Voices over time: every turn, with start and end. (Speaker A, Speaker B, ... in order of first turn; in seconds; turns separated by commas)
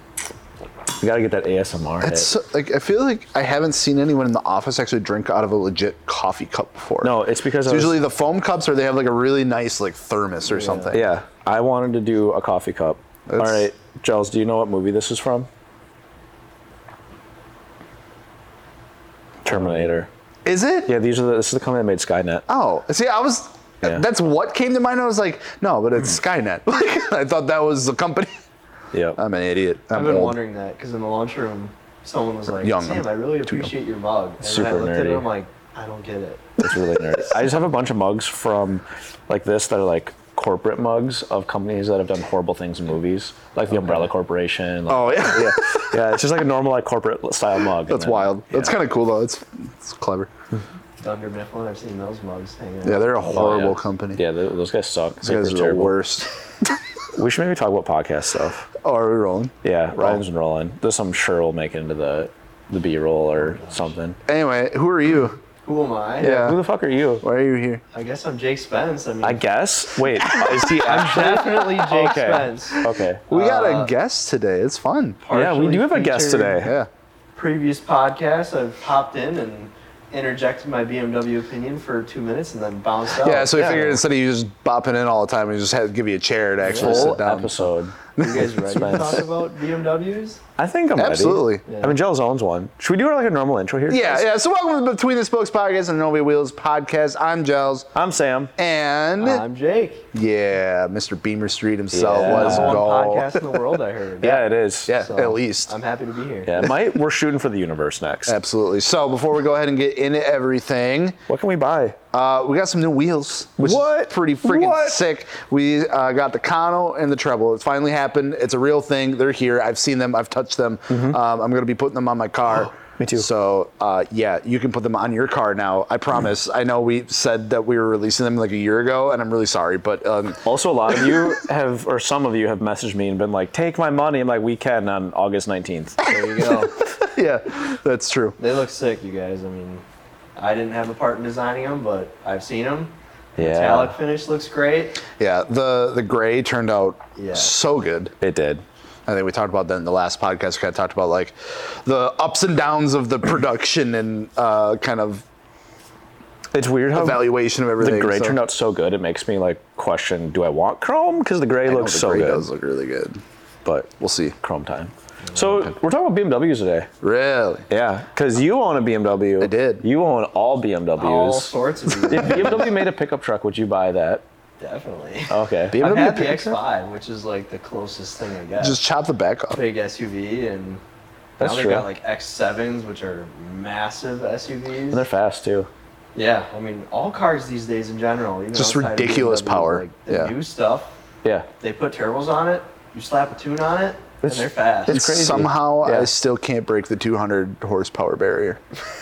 Speaker A: 1.0-2.3, Speaker B: 2.0-11.0, Speaker A: 7.0-8.0, Speaker C: 10.5-10.9, Speaker A: 10.9-15.5, Speaker B: 13.3-13.7, Speaker A: 19.4-20.1, Speaker B: 19.5-19.9, Speaker B: 20.4-20.9, Speaker A: 20.9-22.4, Speaker B: 22.5-28.3, Speaker A: 28.9-29.2, Speaker B: 29.1-30.3, Speaker C: 29.9-36.5, Speaker B: 32.5-33.7, Speaker A: 34.4-35.2, Speaker A: 36.6-48.7, Speaker B: 36.7-37.1, Speaker B: 43.7-44.1, Speaker B: 44.9-46.0, Speaker B: 47.9-50.3, Speaker C: 51.0-53.3, Speaker B: 52.8-54.2, Speaker A: 53.3-55.9, Speaker B: 55.2-56.7, Speaker A: 57.1-58.7, Speaker B: 58.8-60.2, Speaker A: 59.6-64.2, Speaker C: 63.5-63.9, Speaker B: 64.2-65.4, Speaker C: 65.6-66.5, Speaker B: 66.2-66.6, Speaker A: 66.2-67.2, Speaker B: 67.2-67.8, Speaker C: 67.9-69.4, Speaker A: 69.2-73.3, Speaker B: 70.2-70.8, Speaker C: 70.8-73.9, Speaker B: 71.6-72.1, Speaker B: 72.8-75.2, Speaker C: 75.2-76.6, Speaker A: 75.3-76.7, Speaker B: 76.5-76.9, Speaker C: 77.3-84.0, Speaker B: 83.2-89.2, Speaker A: 83.5-84.0, Speaker C: 86.6-87.1, Speaker A: 86.7-89.2, Speaker C: 88.2-90.4, Speaker A: 90.6-94.2, Speaker B: 91.0-91.6, Speaker C: 91.7-92.0, Speaker B: 93.9-97.9, Speaker A: 97.9-98.5, Speaker B: 98.6-99.4, Speaker C: 99.2-100.1, Speaker B: 100.1-105.7, Speaker A: 101.9-102.8, Speaker C: 102.1-106.6, Speaker A: 104.2-104.9, Speaker A: 106.5-108.4, Speaker B: 106.6-106.9, Speaker B: 108.3-111.2, Speaker A: 111.3-112.0, Speaker B: 112.1-130.4, Speaker A: 113.6-115.0, Speaker A: 120.9-121.2, Speaker A: 122.6-123.3, Speaker A: 130.4-136.0, Speaker B: 130.9-131.3, Speaker C: 136.0-136.7, Speaker B: 136.1-138.4, Speaker C: 138.4-139.8, Speaker C: 140.3-145.0, Speaker A: 143.4-143.9, Speaker B: 145.1-148.1, Speaker C: 147.2-147.5, Speaker A: 148.2-148.6, Speaker B: 149.1-155.2, Speaker A: 156.5-162.5, Speaker B: 156.9-158.4, Speaker B: 161.7-163.2, Speaker A: 163.6-166.9, Speaker B: 164.0-164.3, Speaker B: 167.0-167.7, Speaker A: 167.7-171.5, Speaker B: 169.4-169.8, Speaker C: 171.0-172.7, Speaker B: 172.0-172.7, Speaker A: 172.1-174.2, Speaker C: 174.6-178.8, Speaker A: 175.3-175.8, Speaker B: 175.7-176.6, Speaker B: 178.6-179.6, Speaker C: 179.5-180.8, Speaker A: 181.4-181.9, Speaker C: 181.4-185.0, Speaker A: 184.9-185.7, Speaker C: 186.1-190.9, Speaker B: 188.5-190.3, Speaker C: 191.6-195.0, Speaker A: 194.2-196.1, Speaker B: 194.9-198.6